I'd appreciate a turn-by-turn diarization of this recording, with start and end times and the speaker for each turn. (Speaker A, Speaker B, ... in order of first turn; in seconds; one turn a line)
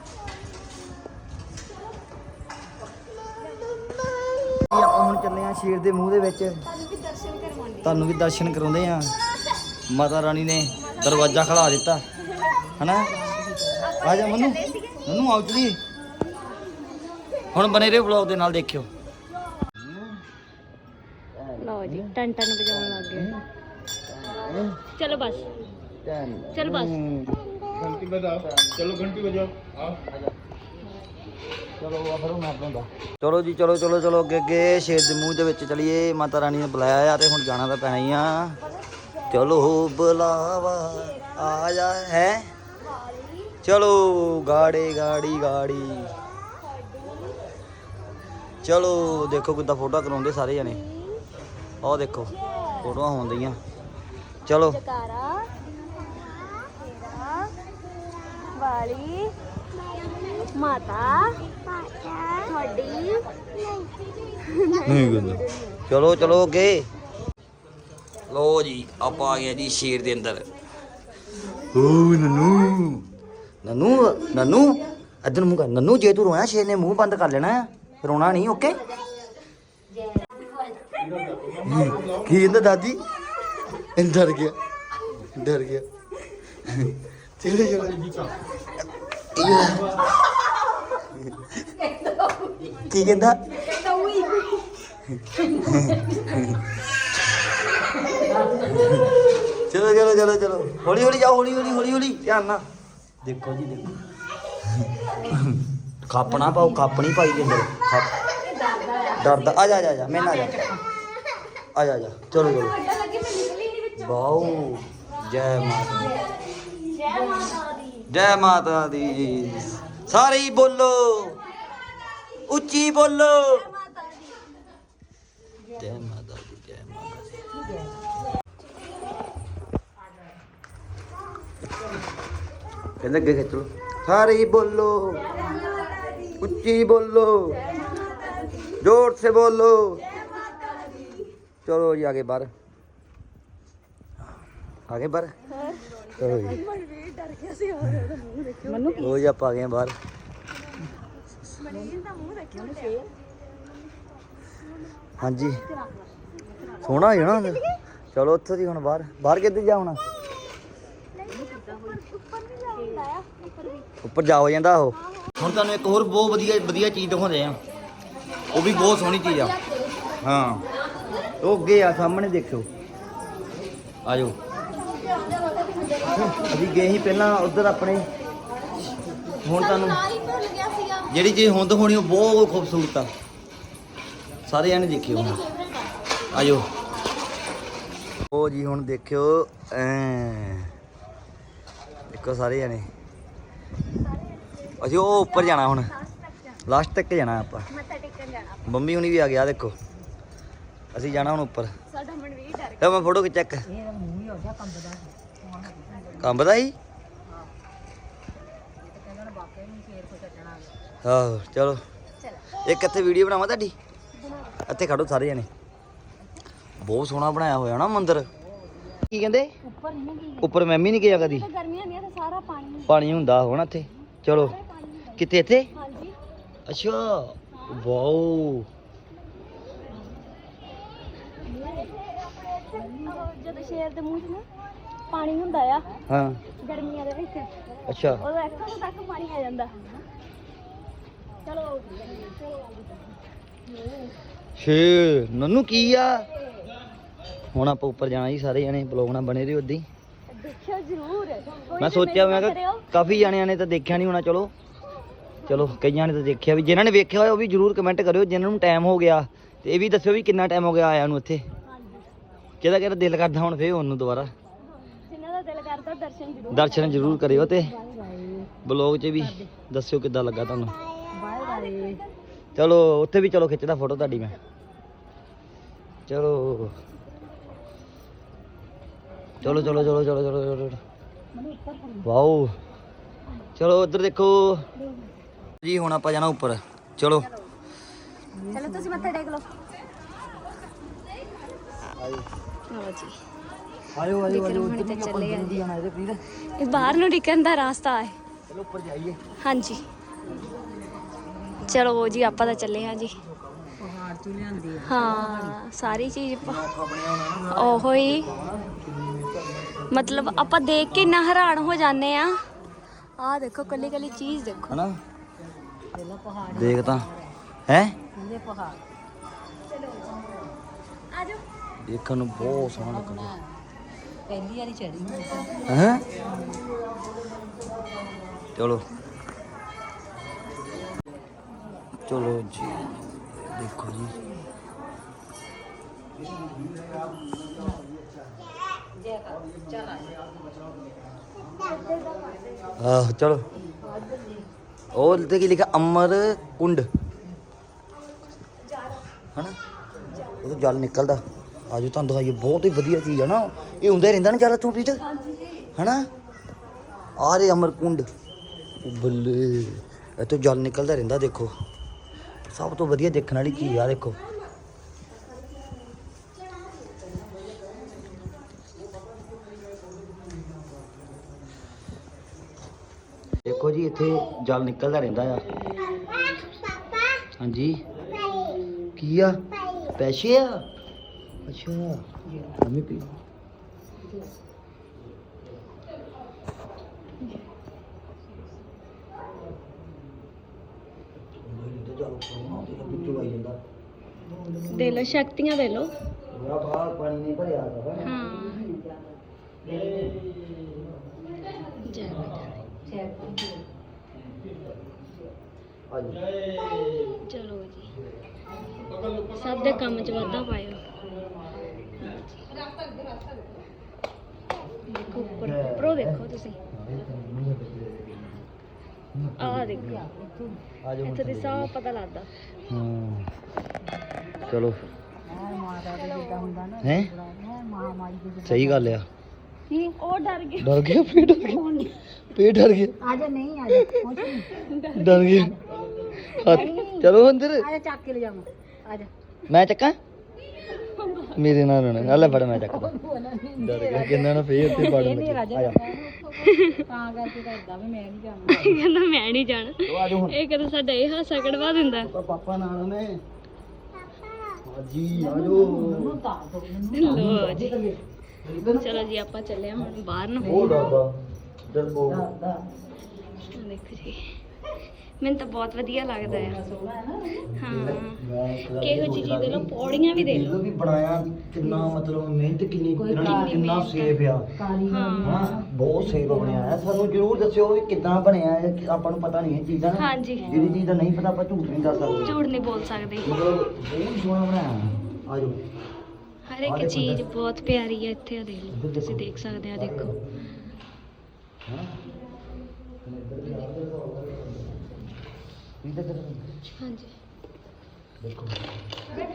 Speaker A: 4.7-6.6
Speaker B: 6.8-8.1
Speaker A: 7.8-9.1
Speaker A: 9.9-12.0
Speaker B: 10.8-11.6
Speaker A: 12.8-13.1
Speaker C: 13.1-14.0
Speaker B: 13.8-15.1
Speaker A: 14.0-15.8
Speaker A: 17.5-18.9
Speaker A: 19.7-20.2
Speaker A: 21.3-22.1
Speaker B: 21.6-23.3
Speaker A: 22.7-23.4
Speaker A: 24.1-24.8
Speaker B: 25.0-25.6
Speaker A: 26.0-30.4
Speaker B: 26.5-27.0
Speaker A: 31.8-38.6
Speaker B: 39.0-39.4
Speaker A: 39.3-42.5
Speaker B: 40.9-41.5
Speaker B: 42.8-43.5
Speaker A: 43.6-46.1
Speaker B: 46.8-47.3
Speaker A: 48.6-50.8
Speaker B: 50.6-51.2
Speaker A: 51.8-53.6
Speaker B: 52.3-53.0
Speaker A: 54.5-54.8
Speaker B: 54.7-55.5
Speaker B: 56.5-57.5
Speaker B: 58.5-59.3
Speaker B: 60.1-61.4
Speaker B: 62.4-63.2
Speaker B: 64.4-65.8
Speaker A: 64.8-66.9
Speaker A: 68.3-70.5
Speaker A: 71.7-73.1
Speaker A: 73.6-78.8
Speaker A: 81.6-83.0
Speaker A: 84.0-84.6
Speaker A: 85.2-85.9
Speaker A: 86.7-88.3
Speaker A: 89.3-90.0
Speaker A: 91.2-91.5
Speaker C: 91.6-92.9
Speaker A: 92.9-93.4
Speaker C: 93.5-94.7
Speaker A: 95.1-96.6
Speaker C: 95.3-96.4
Speaker C: 98.0-99.1
Speaker A: 99.6-102.7
Speaker A: 103.2-104.0
Speaker A: 104.6-108.1
Speaker C: 106.3-106.9
Speaker C: 108.6-109.2
Speaker B: 108.7-109.7
Speaker A: 109.2-110.7
Speaker C: 110.1-110.8
Speaker A: 111.8-112.8
Speaker B: 112.5-114.1
Speaker A: 114.0-116.2
Speaker B: 116.9-117.7
Speaker A: 118.1-121.4
Speaker A: 122.5-123.7
Speaker B: 123.8-124.2
Speaker A: 125.8-127.5
Speaker A: 133.0-135.4
Speaker A: 136.4-137.6
Speaker B: 137.8-138.4
Speaker A: 138.8-140.0
Speaker B: 140.2-141.2
Speaker A: 141.7-142.5
Speaker A: 144.9-145.3
Speaker B: 145.5-149.2
Speaker A: 146.2-146.6
Speaker C: 148.7-149.1
Speaker A: 149.0-150.0
Speaker B: 151.6-153.0
Speaker C: 152.6-153.1
Speaker A: 155.2-155.6
Speaker C: 155.8-157.0
Speaker A: 156.8-160.0
Speaker B: 157.3-157.6
Speaker B: 161.2-163.9
Speaker C: 161.3-162.0
Speaker A: 164.0-167.6
Speaker B: 165.1-165.3
Speaker A: 168.5-169.6
Speaker B: 168.9-169.8
Speaker A: 170.2-170.7
Speaker A: 171.4-172.7
Speaker A: 174.1-174.4
Speaker B: 175.8-176.3
Speaker A: 176.1-178.1
Speaker A: 179.4-180.1
Speaker B: 179.6-181.1
Speaker A: 181.1-183.1
Speaker A: 184.5-185.4
Speaker B: 185.2-185.9
Speaker A: 186.3-186.7
Speaker A: 188.3-190.7
Speaker A: 192.1-192.9
Speaker A: 194.8-195.9
Speaker B: 195.2-196.6
Speaker A: 196.7-197.7
Speaker B: 197.7-198.8
Speaker A: 198.7-199.8
Speaker A: 200.9-201.7
Speaker B: 201.9-203.1
Speaker A: 202.8-203.7
Speaker C: 203.7-206.3
Speaker A: 206.2-206.8
Speaker C: 207.3-207.5
Speaker C: 208.8-210.8
Speaker A: 211.0-211.8
Speaker A: 212.6-213.7
Speaker B: 214.3-214.6
Speaker A: 214.7-215.5
Speaker A: 216.8-218.3
Speaker A: 219.1-219.5
Speaker C: 219.6-220.5
Speaker A: 220.4-221.5
Speaker B: 221.0-223.0
Speaker A: 222.9-224.6
Speaker B: 224.3-225.2
Speaker A: 225.2-225.7
Speaker B: 225.7-226.2
Speaker A: 226.7-228.7
Speaker B: 231.5-234.5
Speaker C: 232.7-233.5
Speaker B: 235.1-235.8
Speaker A: 236.1-236.4
Speaker B: 236.6-237.5
Speaker A: 237.9-238.2
Speaker B: 238.1-239.7
Speaker B: 241.4-242.8
Speaker A: 244.6-246.3
Speaker A: 247.5-249.9
Speaker B: 250.3-252.9
Speaker A: 251.8-254.5
Speaker B: 255.4-255.7
Speaker A: 255.5-261.4
Speaker B: 261.7-262.1
Speaker A: 262.6-264.3
Speaker B: 264.9-267.2
Speaker A: 266.5-267.7
Speaker C: 266.8-268.5
Speaker A: 268.6-270.8
Speaker C: 269.2-269.5
Speaker C: 271.1-272.0
Speaker B: 271.4-272.0
Speaker A: 272.6-274.4
Speaker A: 276.1-276.8
Speaker A: 279.4-280.8
Speaker C: 279.4-279.9
Speaker C: 281.3-282.1
Speaker A: 282.0-282.5
Speaker A: 283.6-284.7
Speaker A: 285.6-287.3
Speaker C: 288.4-289.2
Speaker B: 288.5-289.5
Speaker A: 291.9-292.3
Speaker B: 292.7-293.2
Speaker A: 293.9-296.2
Speaker B: 294.3-295.6
Speaker B: 296.6-298.2
Speaker A: 298.5-299.2
Speaker B: 299.4-299.8
Speaker C: 301.1-301.7
Speaker B: 301.7-303.2
Speaker A: 302.2-303.0
Speaker C: 303.8-305.6
Speaker B: 304.8-306.6
Speaker A: 306.4-309.9
Speaker B: 307.5-308.3
Speaker B: 309.9-312.4
Speaker B: 313.2-314.8
Speaker A: 314.7-315.0
Speaker C: 315.9-317.4
Speaker A: 316.5-317.1
Speaker A: 317.7-318.0
Speaker C: 318.1-318.8
Speaker A: 321.8-323.4
Speaker C: 322.4-323.6
Speaker C: 324.3-326.6
Speaker A: 325.7-326.0
Speaker A: 328.6-328.8
Speaker A: 332.1-334.2
Speaker C: 339.0-340.2
Speaker A: 342.8-343.4
Speaker C: 343.6-344.5
Speaker A: 344.9-346.9
Speaker A: 350.4-355.0
Speaker A: 355.8-356.1
Speaker A: 357.2-358.1
Speaker A: 358.8-361.5
Speaker A: 362.5-364.2
Speaker A: 373.4-375.4
Speaker A: 377.4-377.8
Speaker A: 379.0-379.4
Speaker A: 380.0-380.6
Speaker A: 381.5-382.1
Speaker C: 382.3-382.6
Speaker A: 382.6-383.1
Speaker A: 391.4-393.6
Speaker C: 394.3-395.1
Speaker B: 394.7-395.9
Speaker A: 396.3-398.2
Speaker B: 398.0-398.7
Speaker C: 398.3-398.9
Speaker A: 399.6-400.2
Speaker B: 401.8-402.5
Speaker C: 402.9-403.6
Speaker A: 405.9-406.2
Speaker B: 407.3-407.9
Speaker B: 409.3-410.8
Speaker B: 412.0-412.4
Speaker C: 412.5-413.4
Speaker B: 414.9-416.6
Speaker A: 415.2-418.5
Speaker A: 419.1-420.1
Speaker B: 419.4-420.0
Speaker C: 419.7-420.6
Speaker A: 420.8-421.7
Speaker B: 421.0-422.3
Speaker A: 422.7-423.3
Speaker A: 424.5-424.8
Speaker C: 425.3-429.0
Speaker B: 425.9-426.6
Speaker A: 426.8-427.1
Speaker A: 428.4-429.1
Speaker C: 429.7-430.0
Speaker B: 430.0-431.2
Speaker A: 430.6-431.6
Speaker C: 431.2-431.9
Speaker A: 432.3-433.0
Speaker C: 433.0-434.5
Speaker B: 434.5-435.4
Speaker A: 434.9-435.6
Speaker C: 435.2-435.6
Speaker B: 436.2-436.6
Speaker C: 436.2-439.1
Speaker A: 436.3-437.7
Speaker A: 439.5-440.0
Speaker B: 440.7-441.5
Speaker A: 441.4-442.9
Speaker C: 442.0-448.8
Speaker A: 443.6-445.8
Speaker B: 446.4-446.9
Speaker B: 448.5-452.1
Speaker A: 449.8-450.4
Speaker A: 452.0-453.2
Speaker A: 454.6-456.2
Speaker C: 455.1-458.8
Speaker B: 456.9-457.8
Speaker A: 457.0-457.6
Speaker A: 458.5-458.8
Speaker B: 458.8-460.6
Speaker C: 460.4-461.0
Speaker A: 460.4-461.1
Speaker A: 461.7-462.3
Speaker C: 462.1-462.6
Speaker B: 463.5-464.2
Speaker B: 465.2-466.6
Speaker A: 466.2-466.6
Speaker C: 466.3-467.6
Speaker A: 467.5-474.5
Speaker B: 467.6-468.2
Speaker B: 468.8-470.6
Speaker C: 471.6-472.0
Speaker C: 473.0-473.6
Speaker B: 473.1-474.2
Speaker C: 474.6-476.9
Speaker B: 474.9-475.5
Speaker A: 475.2-482.4
Speaker B: 479.9-480.6
Speaker C: 480.4-480.9
Speaker B: 482.2-483.4
Speaker A: 483.2-485.6
Speaker B: 486.5-490.1
Speaker A: 486.6-487.2
Speaker A: 488.7-490.2
Speaker A: 491.7-491.9
Speaker A: 493.0-495.0
Speaker A: 495.8-496.6
Speaker B: 496.8-497.1
Speaker A: 498.2-498.6